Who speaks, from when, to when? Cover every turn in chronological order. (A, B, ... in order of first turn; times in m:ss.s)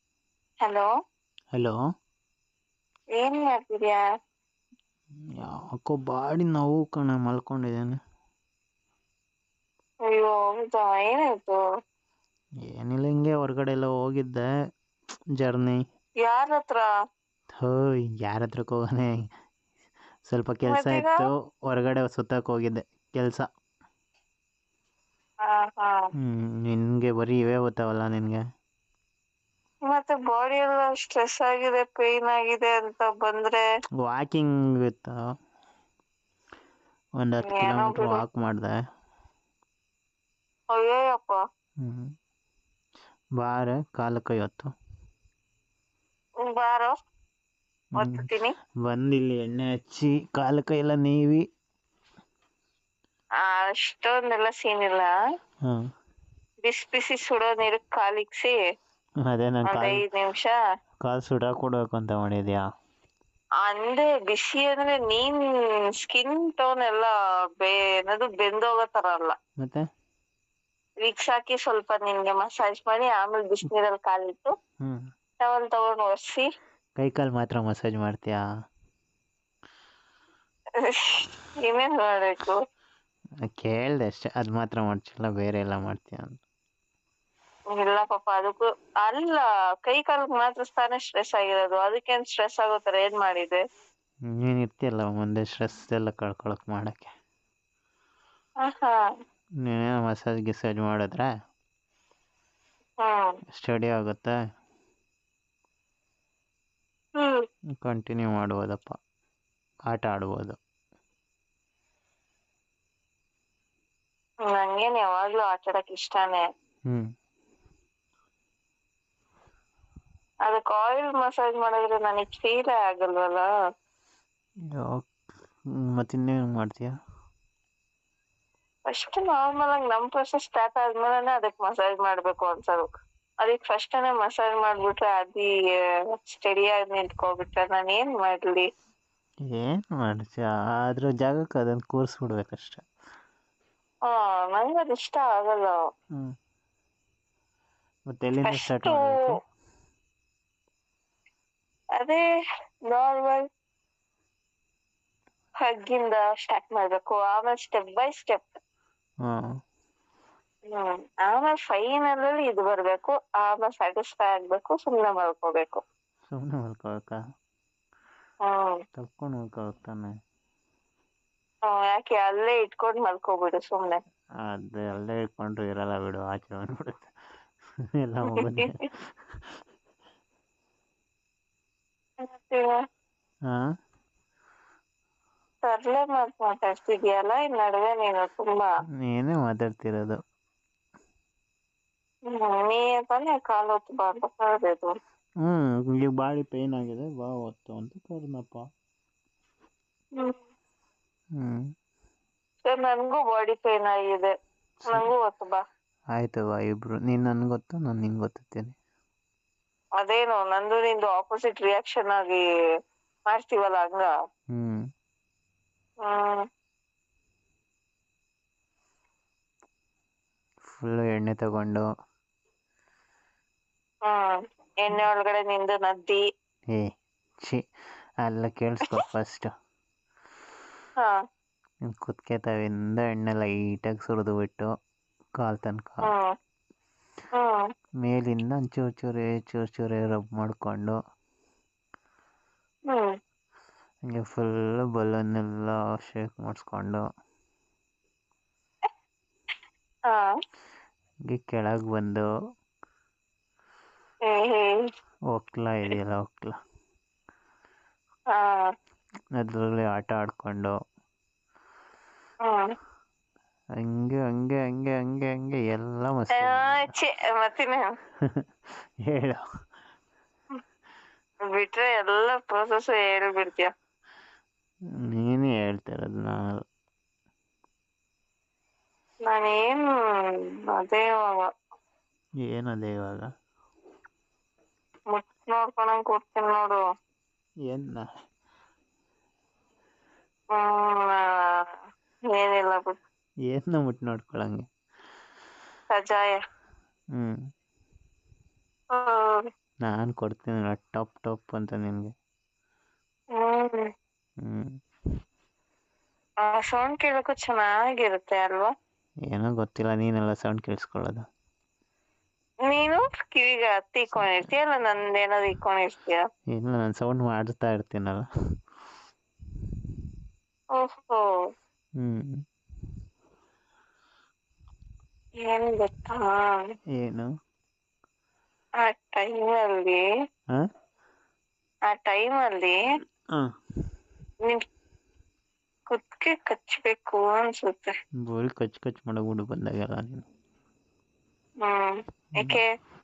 0:00.6-0:00.9 A
0:03.2-0:04.0 A
0:05.4-0:08.0 B
0:10.1-0:11.6 A
0:12.7-0:14.4 B
0:15.4-0:15.8 B
0:16.2-0:16.8 A
0:17.6-0:19.1 B
0:20.3-0:23.4 B
0:20.7-0:21.2 A
0:25.5-0:26.0 A
0:26.2-0:28.4 B
0:29.9-0:33.6 A
0:34.0-0:35.2 B
0:37.2-0:38.7 B
0:37.4-0:38.2 A
0:40.7-0:41.4 A
0:41.8-0:42.1 B
0:43.4-0:44.7 B
0:46.4-0:47.0 A
0:48.0-0:48.5 A
0:48.9-0:51.4 B
0:53.4-0:55.1 A
0:56.6-0:58.6 A
0:59.3-1:00.0 B
0:59.6-1:00.5 A
1:01.0-1:02.6 B
1:03.6-1:05.4 A
1:06.0-1:09.3 A
1:11.0-1:14.5 A
1:15.4-1:16.4 A
1:17.0-1:18.4 B
1:20.9-1:22.6 A
1:23.6-1:26.4 B
1:27.8-1:33.6 A
1:34.4-1:37.1 B
1:38.6-1:39.0 A
1:39.6-1:41.3 B
1:43.0-1:43.4 A
1:43.5-1:44.3 B
1:47.2-1:47.4 A
1:47.8-1:49.0 B
1:49.9-1:50.6 B
1:54.5-1:56.4 A
2:00.5-2:03.5 A
2:04.8-2:05.2 B
2:06.0-2:06.9 B
2:08.9-2:12.9 A
2:13.4-2:15.5 A
2:16.3-2:18.6 A
2:19.5-2:22.8 B
2:24.1-2:25.8 A
2:28.1-2:29.4 B
2:28.4-2:29.2 A
2:32.9-2:33.4 A
2:35.6-2:38.6 A
2:40.7-2:45.8 A
2:46.3-2:47.2 B
2:48.4-2:48.8 A
2:49.0-2:50.1 B
2:51.7-2:54.0 A
2:54.4-2:57.1 B
2:58.0-2:59.0 B
2:58.3-2:58.6 A
3:02.3-3:02.7 A
3:05.6-3:08.7 A
3:09.1-3:10.2 B
3:12.3-3:14.9 A
3:15.4-3:18.6 B
3:22.6-3:24.3 A
3:24.9-3:25.6 A
3:26.2-3:28.7 B
3:30.0-3:32.4 A
3:33.3-3:34.1 A
3:34.5-3:34.8 B
3:36.0-3:36.4 A
3:40.7-3:41.8 B
3:44.1-3:46.2 A
3:48.2-3:49.5 B
3:51.9-3:54.7 B
3:55.4-3:56.1 B
3:57.4-3:57.6 A
3:58.0-4:01.0 B
4:04.1-4:07.0 B
4:11.3-4:12.2 B
4:14.3-4:14.8 A
4:15.3-4:16.5 B
4:18.3-4:18.6 A
4:19.4-4:20.7 B
4:23.8-4:26.9 B
4:26.4-4:27.9 A
4:29.0-4:29.4 B
4:31.6-4:33.7 A
4:35.1-4:36.6 B
4:39.3-4:41.4 A
4:42.4-4:43.2 B
4:45.1-4:46.8 A
4:47.7-4:48.0 B
4:50.5-4:51.6 A
4:52.3-4:53.0 A
4:53.5-4:54.6 B
4:55.9-4:56.3 A
4:58.9-4:59.4 A
4:59.9-5:02.1 B
5:03.4-5:03.8 A
5:04.4-5:04.7 B
5:06.4-5:08.7 A
5:09.3-5:11.2 B
5:12.7-5:16.2 A
5:16.5-5:18.2 B
5:20.8-5:21.2 A
5:22.0-5:22.4 B
5:25.4-5:26.7 A
5:27.0-5:27.3 B
5:28.8-5:30.0 A
5:31.9-5:32.8 A
5:35.9-5:37.9 A
5:38.3-5:40.2 B
5:41.6-5:42.7 A